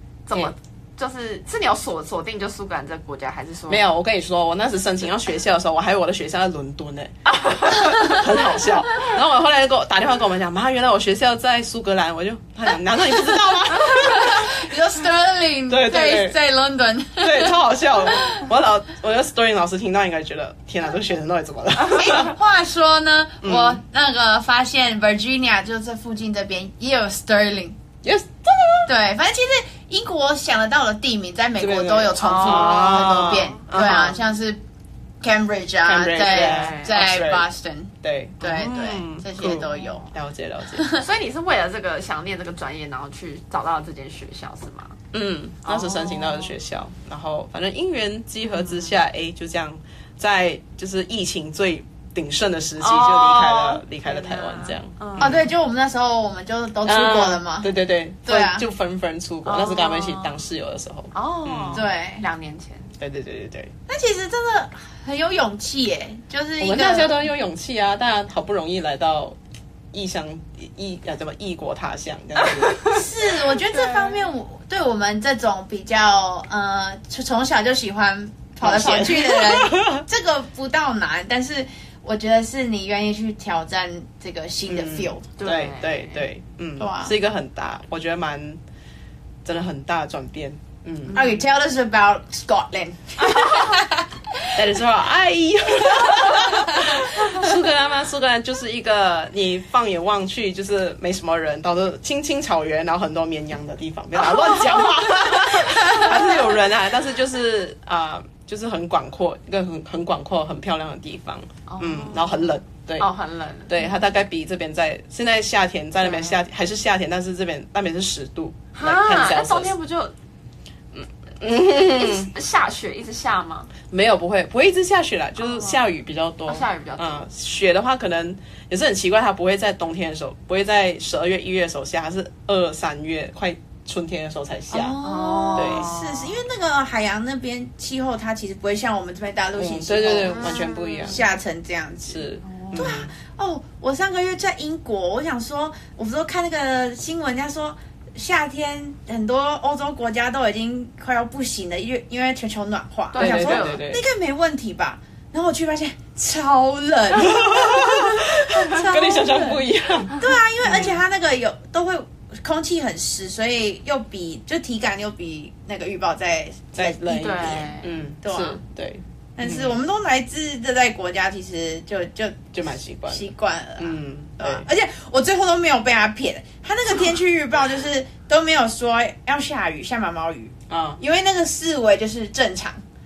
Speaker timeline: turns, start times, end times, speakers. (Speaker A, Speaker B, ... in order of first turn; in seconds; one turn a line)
Speaker A: 0.3-3.8
Speaker B: 3.7-14.6
Speaker A: 7.3-8.2
Speaker C: 13.8-18.5
Speaker B: 15.7-16.4
Speaker B: 17.2-22.3
Speaker C: 21.9-27.8
Speaker B: 23.4-23.8
Speaker B: 28.0-28.9
Speaker C: 28.9-34.6
Speaker B: 31.6-34.2
Speaker A: 32.2-33.5
Speaker C: 35.2-40.0
Speaker B: 35.8-37.5
Speaker A: 36.3-36.9
Speaker B: 38.0-40.9
Speaker A: 39.7-40.0
Speaker C: 40.8-41.0
Speaker A: 40.9-45.0
Speaker B: 45.1-55.5
Speaker A: 45.6-46.5
Speaker A: 48.5-48.9
Speaker A: 52.8-55.4
Speaker C: 55.2-57.7
Speaker B: 56.9-61.8
Speaker C: 58.2-58.6
Speaker A: 59.5-60.4
Speaker A: 61.1-62.9
Speaker C: 61.7-62.3
Speaker B: 63.0-63.7
Speaker C: 63.9-67.2
Speaker B: 66.6-69.4
Speaker B: 69.9-73.0
Speaker C: 72.9-85.3
Speaker A: 73.8-74.3
Speaker B: 78.6-80.0
Speaker B: 84.7-88.6
Speaker A: 85.4-86.3
Speaker C: 86.8-87.1
Speaker B: 89.5-91.2
Speaker A: 91.1-91.4
Speaker C: 91.1-94.5
Speaker A: 93.3-93.6
Speaker B: 94.6-113.1
Speaker C: 96.0-97.4
Speaker A: 104.4-104.7
Speaker A: 111.7-113.9
Speaker B: 113.7-119.7
Speaker A: 116.0-116.4
Speaker A: 118.7-120.1
Speaker B: 120.9-122.3
Speaker A: 121.9-123.7
Speaker B: 123.9-135.0
Speaker A: 125.4-125.8
Speaker A: 126.5-127.2
Speaker C: 134.7-168.6
Speaker A: 135.0-136.4
Speaker B: 135.6-135.9
Speaker B: 139.6-141.2
Speaker A: 140.3-141.2
Speaker B: 142.1-143.1
Speaker A: 142.4-142.9
Speaker A: 153.1-153.8
Speaker B: 153.2-154.0
Speaker B: 157.3-161.0
Speaker B: 166.8-169.8
Speaker A: 167.1-167.9
Speaker C: 169.4-172.5
Speaker B: 172.5-173.3
Speaker C: 173.1-182.8
Speaker B: 173.8-174.7
Speaker B: 180.7-181.0